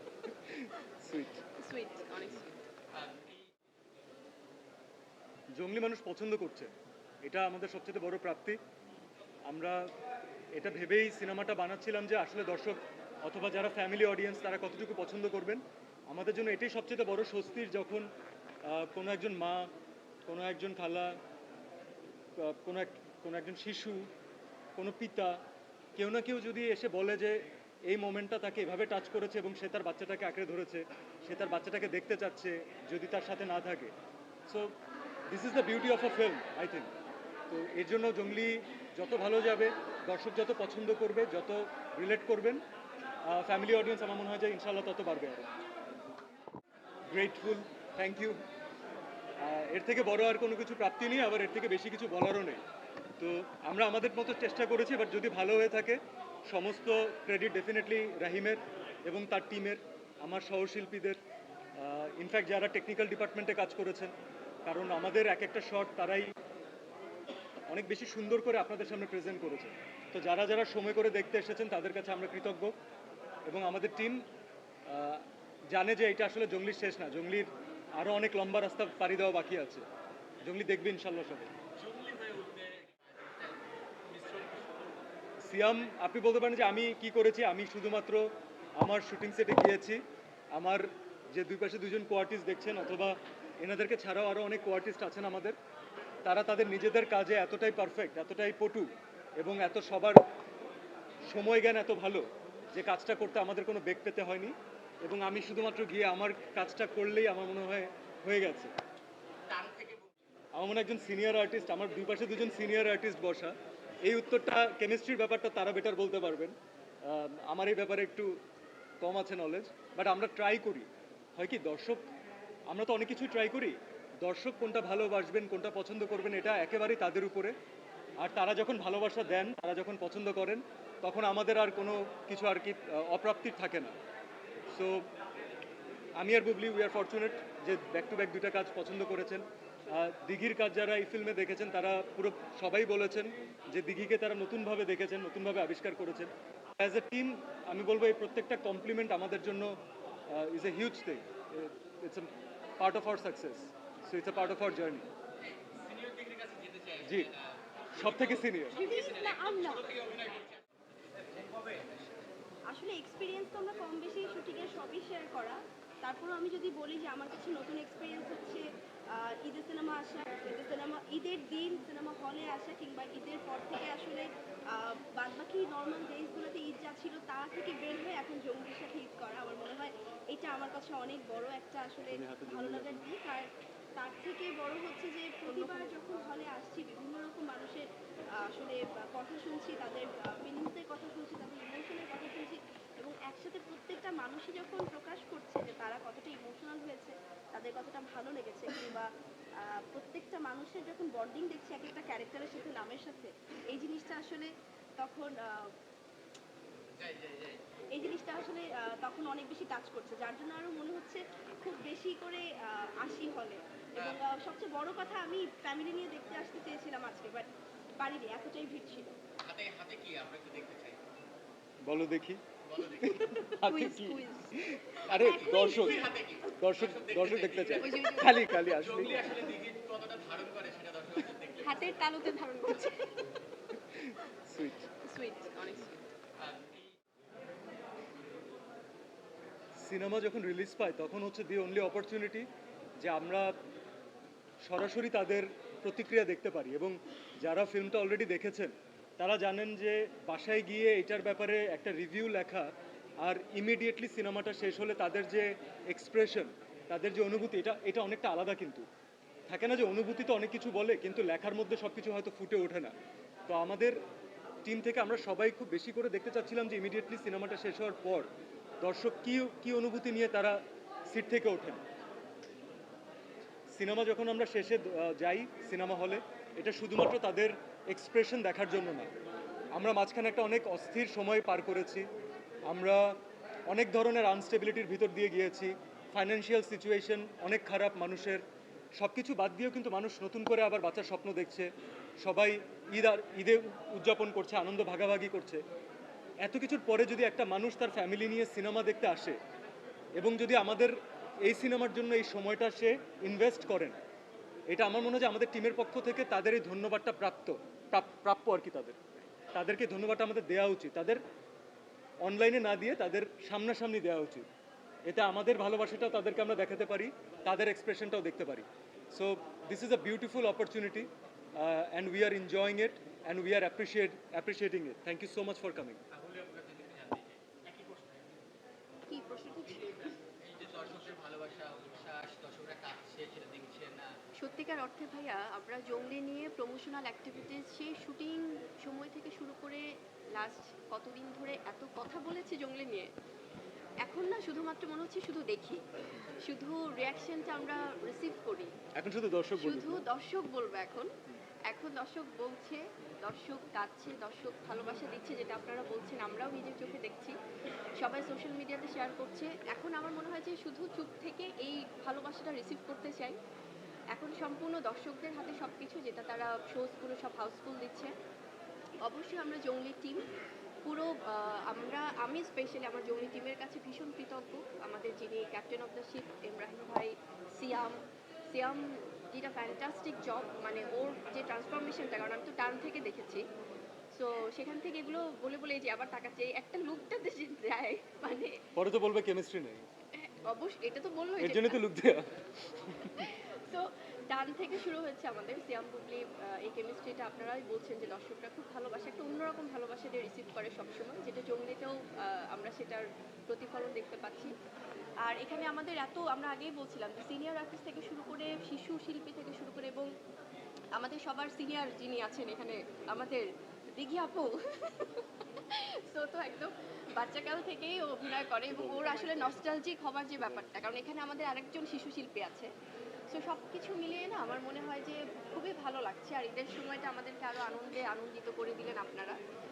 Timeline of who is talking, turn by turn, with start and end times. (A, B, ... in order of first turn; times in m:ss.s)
0:00.3-0:01.4 A
0:01.6-0:02.6 B
0:02.9-0:03.5 C
0:05.6-0:06.7 A
0:07.2-0:08.6 A
0:09.5-0:09.9 A
0:10.5-0:18.1 A
0:18.6-0:19.7 A
0:20.2-0:21.2 A
0:22.4-0:24.1 A
0:24.8-0:25.4 A
0:26.0-0:33.9 A
0:34.5-0:34.8 A
0:35.3-0:36.9 A
0:37.5-0:42.6 A
0:43.2-0:45.5 A
0:47.1-0:48.4 A
0:49.4-0:52.6 A
0:53.2-1:01.2 A
1:01.8-1:04.1 A
1:04.6-1:06.3 A
1:07.7-1:12.7 A
1:13.5-1:14.2 A
1:14.9-1:19.8 A
1:20.4-1:21.5 A
1:21.8-1:24.9 C
1:25.4-1:35.6 A
1:36.2-1:40.2 A
1:41.2-1:48.7 A
1:49.5-1:50.1 C
1:50.5-1:58.3 A
1:59.0-2:02.1 A
2:02.7-2:07.5 A
2:08.2-2:13.9 A
2:14.7-2:15.0 A
2:16.2-2:29.7 A
2:30.3-2:35.1 A
2:35.4-2:42.2 C
2:37.0-2:37.3 A
2:38.0-2:38.8 A
2:38.7-2:39.9 D
2:42.7-3:07.9 D
3:02.0-3:03.0 A
3:05.5-3:05.9 B
3:08.5-3:19.1 D
3:19.6-3:25.7 D
3:27.0-3:27.6 C
3:27.9-3:39.1 D
3:39.4-3:41.0 C
3:41.8-3:49.4 A
3:42.6-3:43.2 C
3:43.6-3:45.9 B
3:45.0-3:52.1 C
3:47.8-3:48.5 B
3:51.6-3:53.1 B
3:53.9-3:54.9 A
3:55.0-3:56.0 B
3:56.4-3:56.9 C
3:59.8-4:02.5 A
4:03.0-4:03.5 A
4:04.6-4:18.8 A
4:19.5-4:22.9 A
4:23.5-4:24.0 A
4:24.6-4:28.3 A
4:28.8-4:31.8 A
4:33.7-4:39.1 A
4:39.7-4:42.1 A
4:42.7-4:43.2 A
4:43.7-4:48.4 A
4:49.0-4:55.6 A
4:56.4-4:59.4 A
5:00.2-5:04.0 A
5:04.7-5:09.0 A
5:09.5-5:11.2 A
5:12.2-5:14.5 A
5:15.0-5:26.0 A
5:26.1-5:28.4 C
5:29.1-5:30.1 B
5:29.6-5:34.1 C
5:34.4-5:43.1 B
5:44.0-5:45.8 B
5:46.4-5:48.7 B
5:49.0-5:50.1 A
5:49.6-5:51.1 B
5:51.7-5:57.4 B
5:58.0-6:03.4 B
6:04.1-6:08.1 B
6:09.0-6:10.2 B
6:10.8-6:23.4 B
6:24.1-6:28.6 B
6:28.8-6:29.8 A
6:30.2-6:31.8 B
6:31.4-6:33.2 A
6:33.1-6:44.5 B
6:45.2-6:50.1 B
6:50.9-7:02.7 B
6:58.7-6:59.6 A
7:00.4-7:00.7 A
7:03.3-7:09.4 B